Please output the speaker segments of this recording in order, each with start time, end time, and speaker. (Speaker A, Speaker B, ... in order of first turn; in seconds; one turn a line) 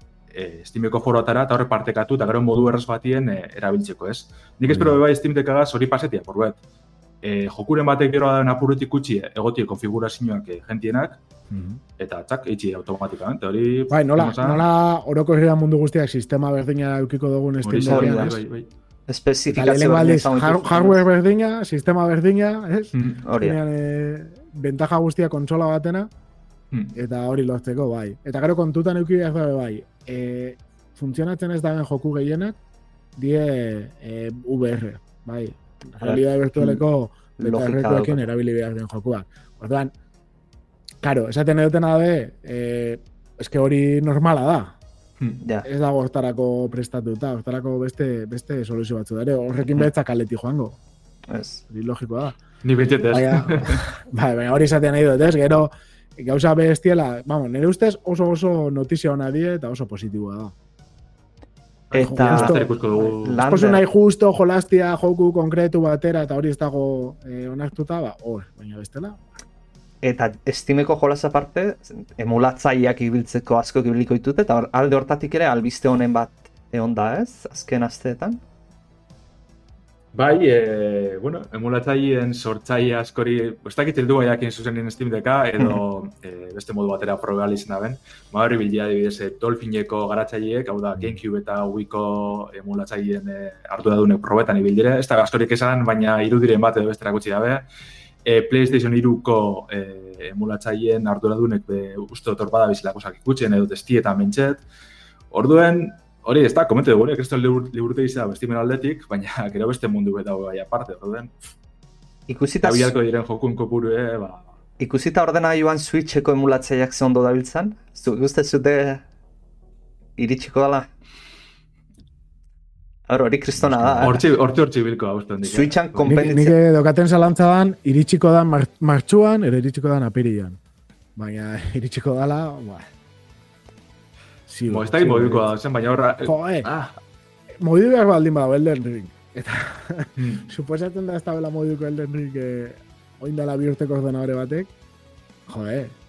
Speaker A: 0.3-6.6
Speaker B: 4.7-5.0
Speaker A: 7.2-11.2
Speaker B: 11.5-11.8
Speaker A: 12.0-14.6
Speaker B: 13.9-18.4
Speaker A: 17.6-18.7
Speaker C: 17.9-18.4
Speaker C: 19.1-21.0
Speaker B: 19.5-26.1
Speaker A: 22.9-23.2
Speaker C: 23.2-23.6
Speaker B: 26.9-32.6
Speaker B: 33.1-39.9
Speaker C: 36.0-36.8
Speaker C: 37.4-38.3
Speaker B: 41.0-44.8
Speaker C: 45.4-45.7
Speaker B: 45.6-50.8
Speaker C: 51.3-51.6
Speaker B: 51.7-52.4
Speaker A: 52.6-53.8
Speaker B: 53.1-60.5
Speaker A: 61.9-63.4
Speaker C: 61.9-63.8
Speaker B: 62.0-62.7
Speaker B: 63.4-69.2
Speaker C: 70.0-78.4
Speaker A: 80.1-97.6
Speaker A: 98.2-104.6
Speaker A: 105.3-111.3
Speaker C: 112.3-112.9
Speaker A: 112.6-114.4
Speaker C: 114.8-119.0
Speaker C: 120.2-120.9
Speaker C: 123.1-124.3
Speaker B: 123.6-124.2
Speaker A: 124.0-126.1
Speaker C: 125.4-126.6
Speaker B: 126.0-130.6
Speaker B: 131.2-132.9
Speaker B: 134.5-135.5
Speaker A: 134.7-137.0
Speaker B: 136.2-136.7
Speaker B: 137.6-144.7
Speaker A: 140.2-140.5
Speaker B: 145.5-145.9